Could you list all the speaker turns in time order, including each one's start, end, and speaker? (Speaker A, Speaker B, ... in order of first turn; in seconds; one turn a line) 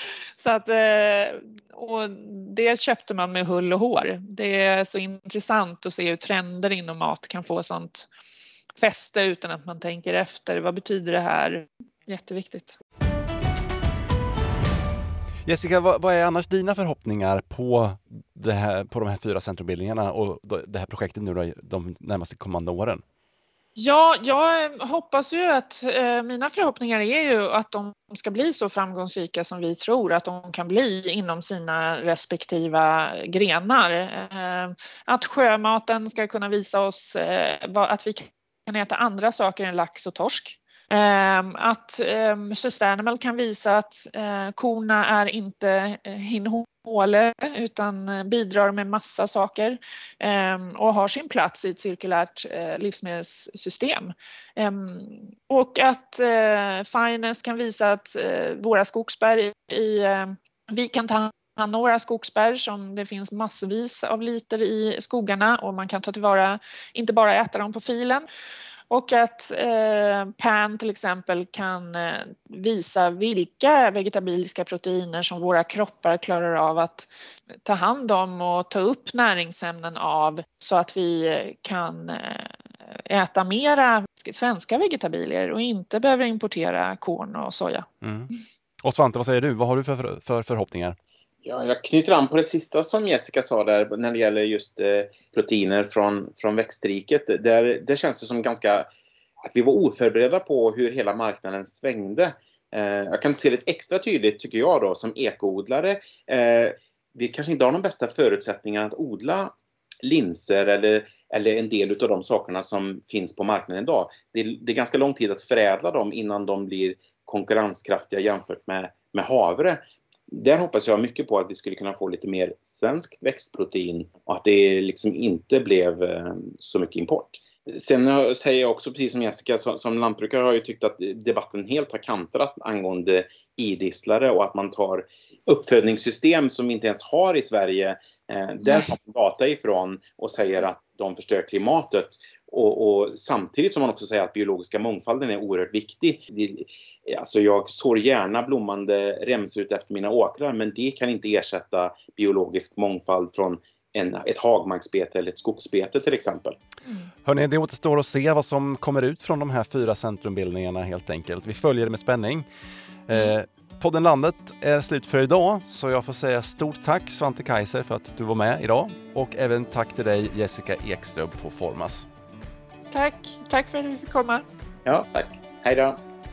Speaker A: 0.4-8.1
Speaker A: 8.8-12.8
Speaker B: 15.4-23.0
Speaker A: 23.8-68.2
Speaker A: 68.9-77.1
Speaker A: 77.6-87.8
Speaker B: 88.0-88.3
Speaker B: 88.8-91.0
Speaker C: 91.4-98.9
Speaker C: 99.5-156.6
Speaker A: 138.6-138.9
Speaker B: 157.2-162.5
Speaker B: 163.1-172.1
Speaker A: 172.9-174.4
Speaker C: 174.8-176.0